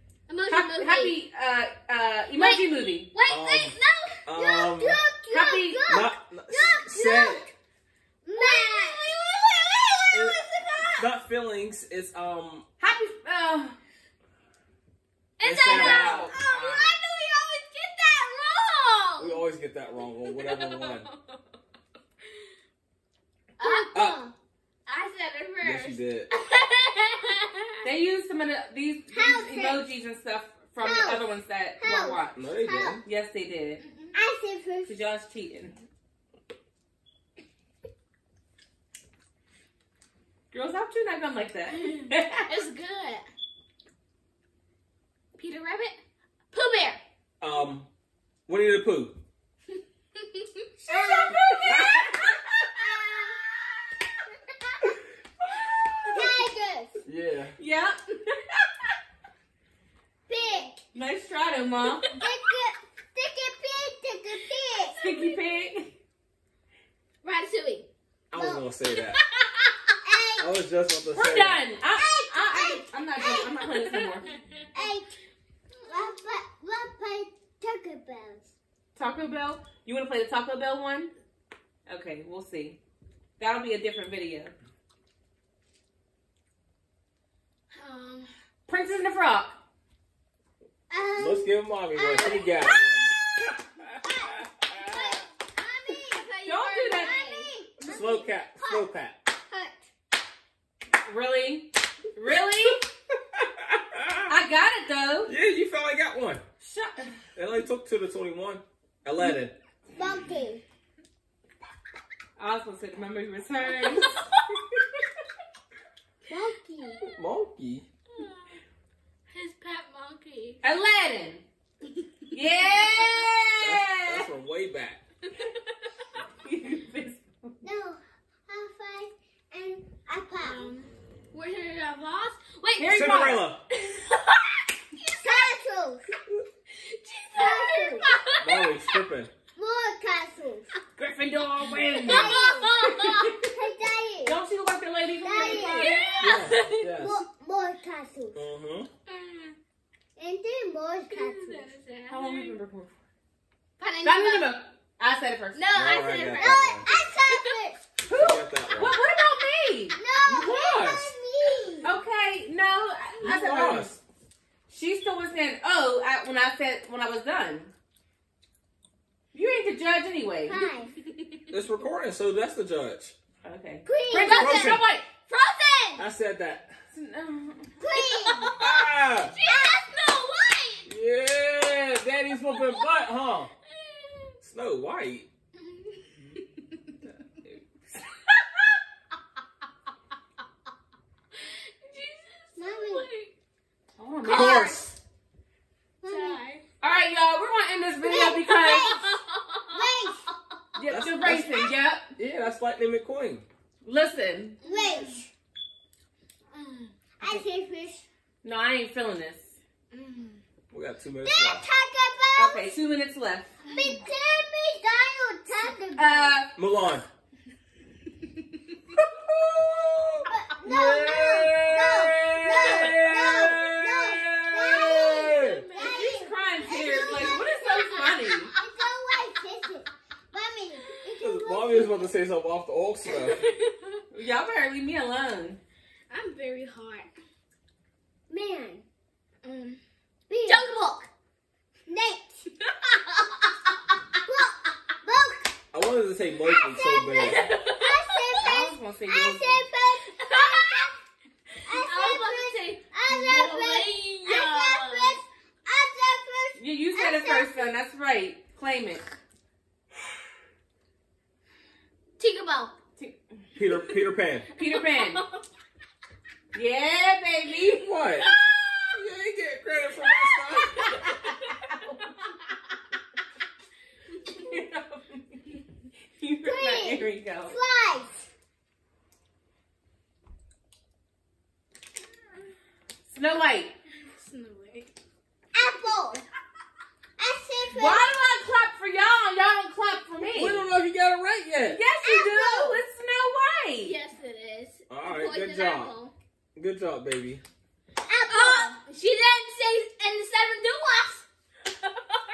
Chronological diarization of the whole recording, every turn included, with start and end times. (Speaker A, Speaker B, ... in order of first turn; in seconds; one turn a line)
Speaker A: 0.3-1.1
Speaker B: 0.5-3.1
Speaker A: 2.4-4.2
Speaker C: 3.3-5.0
Speaker D: 4.3-7.5
Speaker B: 5.3-6.0
Speaker C: 5.9-7.5
Speaker D: 8.2-9.2
Speaker A: 8.3-11.0
Speaker C: 10.1-12.7
Speaker B: 12.8-13.8
Speaker A: 15.4-19.4
Speaker C: 15.4-16.9
Speaker B: 15.7-16.4
Speaker C: 19.2-21.1
Speaker A: 20.3-21.1
Speaker A: 23.6-24.1
Speaker D: 23.6-24.3
Speaker C: 23.9-24.2
Speaker A: 24.9-27.7
Speaker C: 25.6-26.3
Speaker B: 27.8-32.4
Speaker D: 29.1-29.8
Speaker D: 30.8-31.2
Speaker D: 31.8-33.0
Speaker C: 32.3-33.0
Speaker B: 33.0-33.8
Speaker A: 33.8-34.1
Speaker D: 34.1-35.0
Speaker B: 34.8-35.8
Speaker B: 40.5-42.5
Speaker A: 41.9-43.2
Speaker A: 45.3-46.0
Speaker A: 46.5-47.0
Speaker C: 47.4-47.9
Speaker C: 48.5-49.2
Speaker A: 50.2-50.6
Speaker D: 50.9-51.8
Speaker B: 50.9-52.0
Speaker A: 51.4-52.0
Speaker C: 51.6-52.0
Speaker D: 52.8-53.4
Speaker D: 56.1-57.0
Speaker C: 57.0-57.5
Speaker B: 57.6-58.0
Speaker D: 60.3-60.8
Speaker B: 60.9-62.1
Speaker D: 62.2-65.3
Speaker B: 65.0-65.9
Speaker A: 67.2-67.9
Speaker C: 68.3-69.2
Speaker D: 68.3-68.6
Speaker A: 69.0-70.0
Speaker D: 70.0-70.5
Speaker C: 70.4-71.6
Speaker B: 71.1-74.3
Speaker D: 71.9-73.7
Speaker D: 74.7-75.2
Speaker D: 75.8-78.5
Speaker B: 78.9-81.1
Speaker B: 81.8-82.8
Speaker B: 83.4-84.5
Speaker A: 87.7-88.3
Speaker B: 88.7-89.6
Speaker D: 90.9-92.7
Speaker C: 91.2-95.1
Speaker A: 92.0-92.3
Speaker D: 94.0-96.3
Speaker A: 95.9-97.5
Speaker B: 96.4-97.3
Speaker D: 96.9-99.9
Speaker C: 97.8-99.2
Speaker B: 101.0-102.8
Speaker C: 103.3-104.3
Speaker B: 104.3-105.3
Speaker C: 105.2-106.4
Speaker B: 106.6-107.2
Speaker C: 107.3-109.5
Speaker D: 109.9-110.6
Speaker B: 112.4-114.2
Speaker B: 114.7-115.0
Speaker D: 116.3-117.0
Speaker C: 117.1-117.8
Speaker A: 118.2-118.5
Speaker A: 119.3-120.6
Speaker B: 120.6-121.4
Speaker B: 122.3-124.2
Speaker A: 122.6-123.4
Speaker C: 123.6-125.0
Speaker A: 125.4-125.7
Speaker B: 126.4-127.5
Speaker D: 127.6-130.7
Speaker A: 130.4-134.4
Speaker B: 132.8-133.5
Speaker C: 132.9-133.6
Speaker A: 135.0-135.4
Speaker D: 135.1-136.1
Speaker A: 136.7-138.7
Speaker D: 137.3-138.1
Speaker C: 138.4-139.3
Speaker D: 139.5-140.7
Speaker B: 141.0-143.3
Speaker D: 142.0-142.9
Speaker A: 142.1-143.4
Speaker D: 143.4-144.4
Speaker B: 144.2-146.5
Speaker D: 145.2-146.2
Speaker A: 145.3-146.8
Speaker C: 146.2-147.2
Speaker D: 147.0-148.4
Speaker C: 148.3-148.9
Speaker A: 149.1-149.5
Speaker D: 150.2-151.7
Speaker A: 151.1-152.5
Speaker B: 152.1-152.9
Speaker A: 153.8-154.6
Speaker B: 154.0-155.7
Speaker A: 155.5-157.6
Speaker C: 155.7-156.9
Speaker D: 156.3-157.8
Speaker B: 158.0-160.0
Speaker C: 158.1-159.0
Speaker D: 159.9-161.9
Speaker C: 160.2-161.1
Speaker B: 161.8-164.0
Speaker C: 163.2-164.0
Speaker B: 164.7-167.7
Speaker B: 169.3-170.7
Speaker D: 170.5-170.9
Speaker C: 171.5-173.1
Speaker B: 173.4-175.1
Speaker D: 173.8-174.4
Speaker A: 174.2-176.0
Speaker C: 174.2-174.8
Speaker C: 176.0-176.7
Speaker B: 176.9-177.7
Speaker D: 177.8-178.5
Speaker A: 177.9-180.9
Speaker C: 178.5-179.4
Speaker D: 179.4-179.8
Speaker C: 180.8-183.5
Speaker A: 182.5-182.8
Speaker A: 183.8-184.3
Speaker C: 184.4-185.3
Speaker A: 191.4-193.3
Speaker D: 192.6-193.1
Speaker B: 194.0-194.6
Speaker C: 194.2-194.9
Speaker A: 194.3-194.8
Speaker D: 196.0-196.4
Speaker A: 196.0-196.6
Speaker B: 196.8-198.9
Speaker D: 198.0-199.1
Speaker A: 198.6-200.2
Speaker D: 199.7-200.2
Speaker B: 200.7-202.1
Speaker C: 200.8-203.4
Speaker B: 203.8-204.6
Speaker D: 204.6-205.3
Speaker A: 204.6-205.2
Speaker A: 206.5-206.9
Speaker D: 207.2-208.1
Speaker B: 208.4-209.6
Speaker A: 209.9-210.4
Speaker C: 210.7-211.6
Speaker D: 211.2-212.7
Speaker B: 212.3-213.6
Speaker A: 213.6-214.0
Speaker D: 213.7-216.4
Speaker B: 215.9-216.5
Speaker C: 216.5-217.1
Speaker C: 218.9-225.6
Speaker D: 220.3-232.1
Speaker A: 225.4-226.2
Speaker B: 225.7-228.5
Speaker A: 226.9-228.4
Speaker A: 230.8-231.1
Speaker C: 231.2-233.4
Speaker A: 233.3-233.9
Speaker B: 234.1-235.6
Speaker A: 236.1-237.1
Speaker D: 238.3-238.8
Speaker A: 239.4-239.8
Speaker D: 240.3-240.7
Speaker A: 240.4-241.1
Speaker D: 241.9-242.4
Speaker A: 242.6-243.9
Speaker D: 244.2-245.5
Speaker C: 245.7-247.5
Speaker D: 246.5-250.9
Speaker A: 247.2-248.3
Speaker B: 248.4-249.7
Speaker A: 250.2-250.9
Speaker A: 251.6-255.2
Speaker D: 251.7-257.7
Speaker B: 256.6-259.1
Speaker A: 262.2-262.7
Speaker C: 263.6-264.5
Speaker B: 264.5-265.2
Speaker A: 264.7-265.3
Speaker B: 266.5-267.9
Speaker C: 267.7-268.3
Speaker A: 268.2-268.8
Speaker C: 268.9-270.9
Speaker B: 270.9-272.0
Speaker B: 274.2-275.4
Speaker B: 276.2-277.6
Speaker D: 276.4-278.3
Speaker B: 283.1-283.7
Speaker A: 284.1-284.9
Speaker D: 285.5-286.2
Speaker D: 287.2-288.1
Speaker B: 287.7-290.7
Speaker C: 290.3-291.8
Speaker B: 291.7-294.0
Speaker D: 292.0-292.8
Speaker A: 293.8-296.1
Speaker C: 294.9-296.0
Speaker C: 296.6-297.4
Speaker D: 298.1-298.8
Speaker A: 298.2-301.2
Speaker A: 301.8-302.2